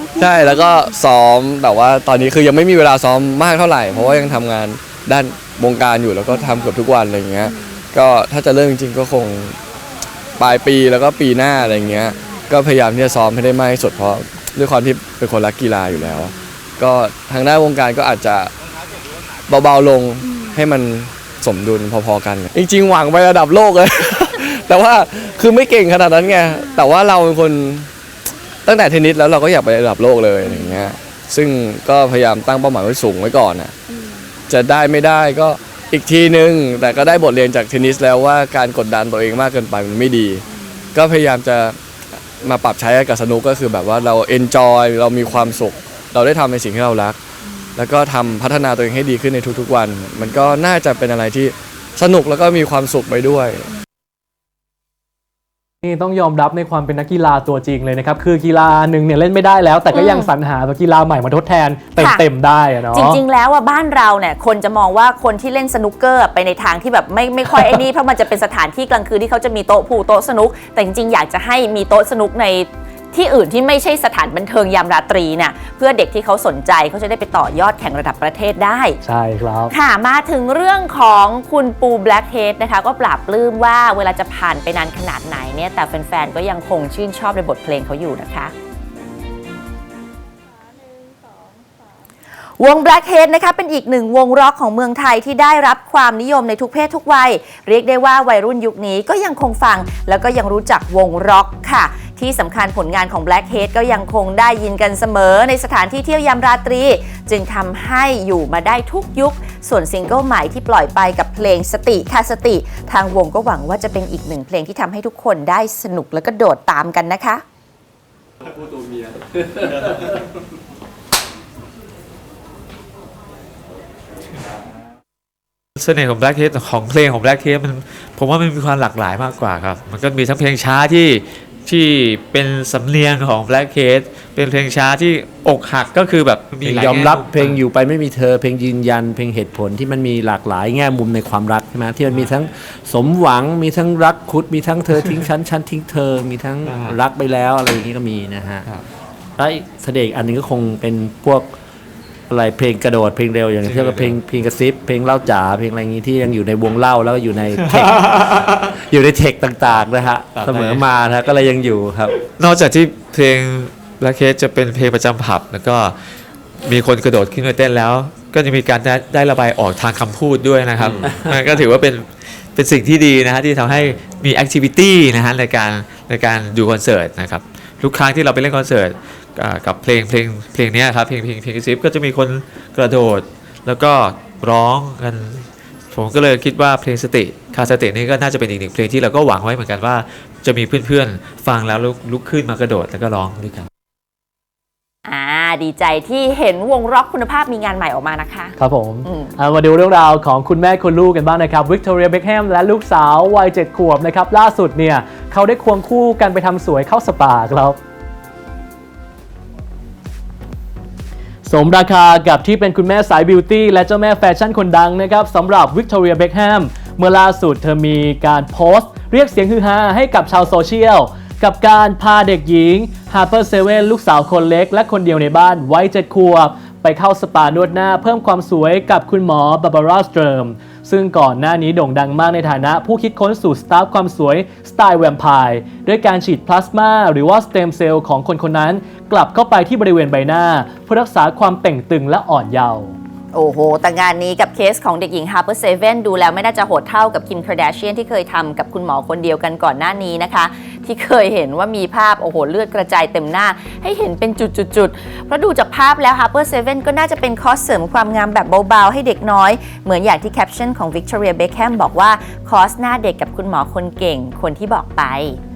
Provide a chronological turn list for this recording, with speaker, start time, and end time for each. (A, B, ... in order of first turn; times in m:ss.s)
0:00.2-0:09.6 A
0:10.4-0:18.5 A
0:19.5-0:27.9 A
0:28.6-0:33.8 A
0:34.5-0:41.8 A
0:42.4-0:47.2 A
0:47.8-0:53.7 A
0:55.8-1:03.2 B
0:59.9-1:00.3 C
1:02.0-1:02.2 C
1:02.9-1:19.0 C
1:19.0-1:19.7 B
1:19.7-1:28.5 C
1:32.6-1:57.4 C
2:05.8-2:17.6 D
2:16.6-2:28.7 E
2:26.7-2:27.0 D
2:29.4-2:31.6 E
2:32.3-2:38.2 E
2:33.6-2:34.2 D
2:37.6-2:38.6 D
2:38.9-2:42.1 E
2:40.4-2:40.8 D
2:42.3-2:46.0 D
2:46.6-3:13.7 D
3:15.1-3:18.6 C
3:18.6-3:27.8 B
3:19.1-3:19.3 C
3:31.5-4:03.0 B
4:03.3-4:25.4 C